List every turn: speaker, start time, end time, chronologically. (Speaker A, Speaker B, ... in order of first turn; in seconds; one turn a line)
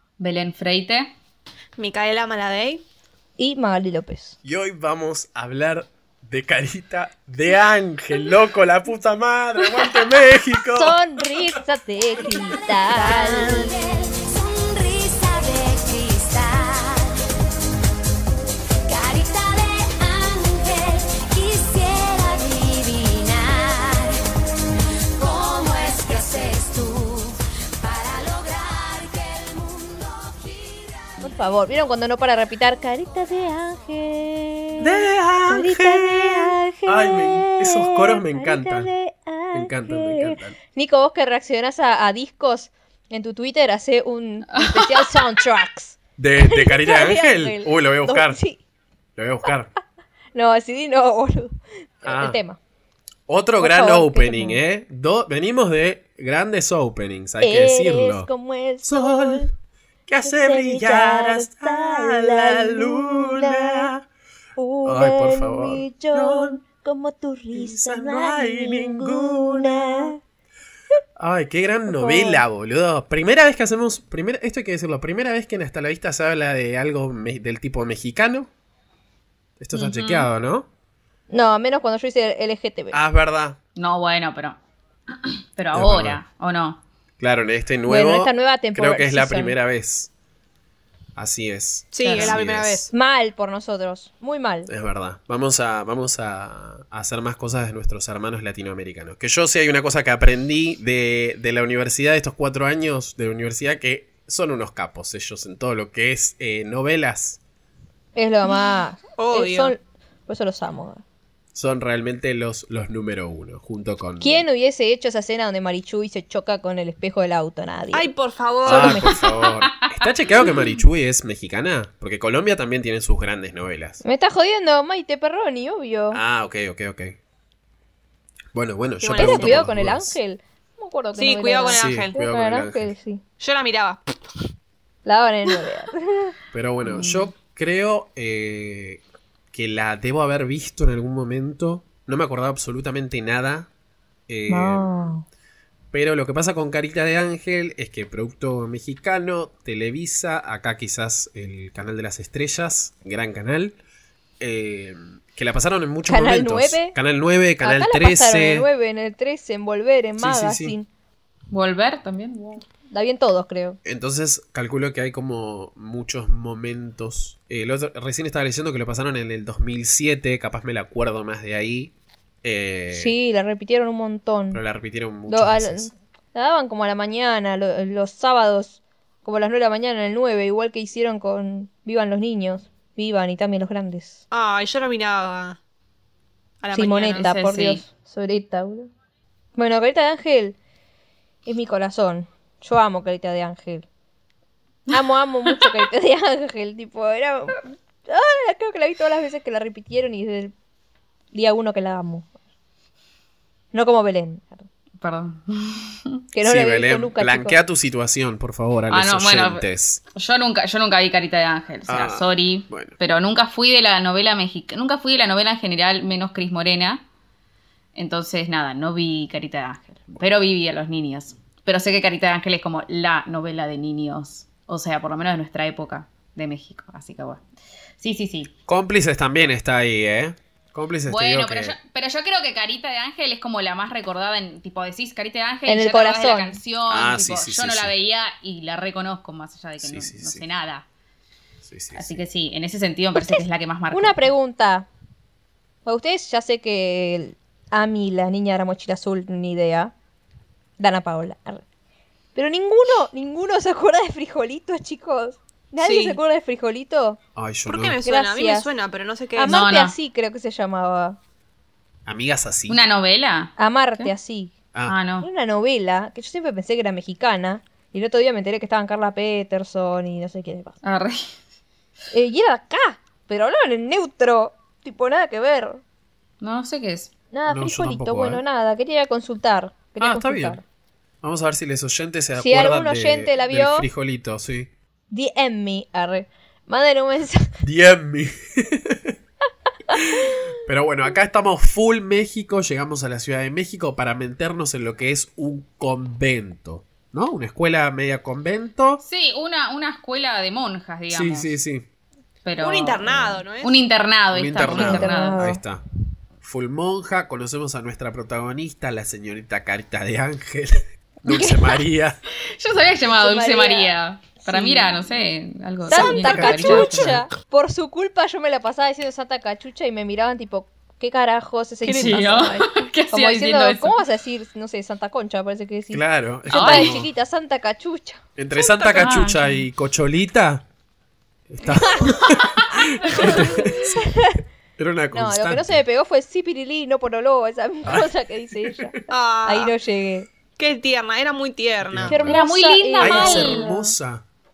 Speaker A: 0.2-1.1
Speaker B: 1.8-2.8
Speaker C: 3.4-4.4
Speaker D: 4.4-11.0
Speaker C: 10.7-14.3
Speaker B: 12.9-14.1
Speaker E: 14.8-15.7
Speaker E: 16.3-16.6
Speaker E: 21.1-21.8
Speaker A: 22.5-24.0
Speaker E: 25.2-25.9
Speaker A: 25.9-27.3
Speaker A: 28.2-30.1
Speaker C: 31.2-48.6
Speaker D: 34.8-38.9
Speaker D: 39.5-40.5
Speaker A: 44.5-45.1
Speaker D: 46.2-48.4
Speaker D: 49.2-49.7
Speaker C: 50.3-52.6
Speaker D: 52.0-52.4
Speaker D: 53.3-58.3
Speaker C: 53.6-54.6
Speaker C: 57.4-59.5
Speaker D: 58.8-59.5
Speaker D: 60.1-64.1
Speaker C: 60.2-63.9
Speaker C: 64.6-70.2
Speaker D: 64.8-66.6
Speaker D: 67.5-70.1
Speaker D: 71.2-78.5
Speaker C: 71.9-72.4
Speaker D: 79.6-80.7
Speaker A: 79.7-80.3
Speaker C: 81.3-83.0
Speaker D: 82.9-83.6
Speaker A: 83.8-84.6
Speaker A: 85.1-86.8
Speaker D: 85.7-86.2
Speaker D: 87.2-90.1
Speaker C: 87.9-89.6
Speaker D: 91.2-92.8
Speaker B: 91.9-92.9
Speaker C: 92.0-92.4
Speaker C: 92.9-94.7
Speaker D: 94.7-107.4
Speaker C: 108.1-111.0
Speaker B: 109.2-109.7
Speaker D: 111.5-114.4
Speaker C: 114.2-118.1
Speaker B: 117.9-119.1
Speaker C: 118.6-119.3
Speaker D: 118.6-124.0
Speaker A: 119.7-120.0
Speaker C: 124.0-126.2
Speaker D: 126.1-127.2
Speaker D: 128.5-130.2
Speaker B: 129.0-129.7
Speaker C: 129.1-133.2
Speaker B: 131.1-132.2
Speaker D: 131.7-132.9
Speaker B: 133.4-134.2
Speaker C: 135.0-136.3
Speaker D: 136.5-143.7
Speaker A: 136.8-137.3
Speaker D: 144.3-144.9
Speaker C: 144.5-145.2
Speaker D: 145.9-153.8
Speaker D: 154.4-158.7
Speaker C: 156.1-156.9
Speaker C: 157.6-160.9
Speaker D: 160.2-160.8
Speaker A: 161.5-162.6
Speaker C: 162.9-163.8
Speaker D: 163.8-171.9
Speaker D: 172.4-173.2
Speaker C: 172.9-174.6
Speaker D: 174.5-175.9
Speaker C: 175.3-184.2
Speaker B: 184.3-185.6
Speaker B: 186.6-187.3
Speaker C: 186.7-188.9
Speaker A: 187.2-187.8
Speaker C: 189.5-190.6
Speaker C: 191.4-193.8
Speaker C: 194.9-200.5
Speaker C: 201.3-202.3
Speaker C: 203.7-204.7
Speaker A: 205.0-206.1
Speaker C: 206.3-207.6
Speaker D: 206.4-210.0
Speaker A: 208.9-217.0
Speaker D: 211.9-212.9
Speaker A: 217.9-227.4
Speaker A: 228.0-228.5
Speaker D: 228.7-231.8
Speaker A: 231.1-240.8
Speaker C: 235.7-236.6
Speaker D: 236.9-237.9
Speaker D: 239.8-240.4
Speaker D: 241.6-242.2
Speaker A: 241.9-244.2
Speaker C: 243.1-244.9
Speaker C: 245.8-249.9
Speaker C: 250.8-251.6
Speaker C: 252.3-257.2
Speaker B: 255.8-256.2
Speaker D: 257.4-258.0
Speaker B: 257.6-259.7
Speaker C: 258.0-258.7
Speaker C: 259.3-261.2
Speaker A: 259.4-259.9
Speaker D: 262.1-262.8
Speaker A: 262.7-264.1
Speaker C: 263.6-264.5
Speaker A: 264.9-265.3
Speaker C: 265.2-270.8
Speaker A: 270.8-271.3
Speaker C: 272.1-275.8
Speaker A: 276.4-277.1
Speaker C: 277.3-280.6
Speaker D: 277.5-278.4
Speaker D: 280.0-280.6
Speaker D: 281.2-284.7
Speaker C: 282.4-283.9
Speaker C: 285.1-287.4
Speaker D: 287.6-289.1
Speaker D: 289.9-299.0
Speaker A: 299.0-301.5
Speaker D: 301.1-301.8
Speaker A: 302.4-305.5
Speaker B: 302.6-303.8
Speaker D: 303.1-303.4
Speaker D: 304.3-305.8
Speaker C: 304.6-305.6
Speaker D: 306.4-312.2
Speaker C: 311.2-311.8
Speaker A: 312.4-317.1
Speaker C: 313.1-315.2
Speaker C: 315.9-328.2
Speaker D: 315.9-317.2
Speaker A: 321.8-324.0
Speaker D: 325.9-327.1
Speaker A: 326.5-327.0
Speaker D: 328.4-330.6
Speaker B: 328.6-329.1
Speaker A: 328.9-329.6
Speaker D: 331.5-334.0
Speaker C: 331.7-332.4
Speaker C: 333.0-334.4
Speaker D: 334.8-335.8
Speaker C: 335.1-340.3
Speaker D: 337.8-339.0
Speaker B: 339.1-339.7
Speaker B: 340.6-342.2
Speaker D: 341.8-342.4
Speaker C: 342.1-343.8
Speaker A: 342.2-343.9
Speaker D: 343.0-344.2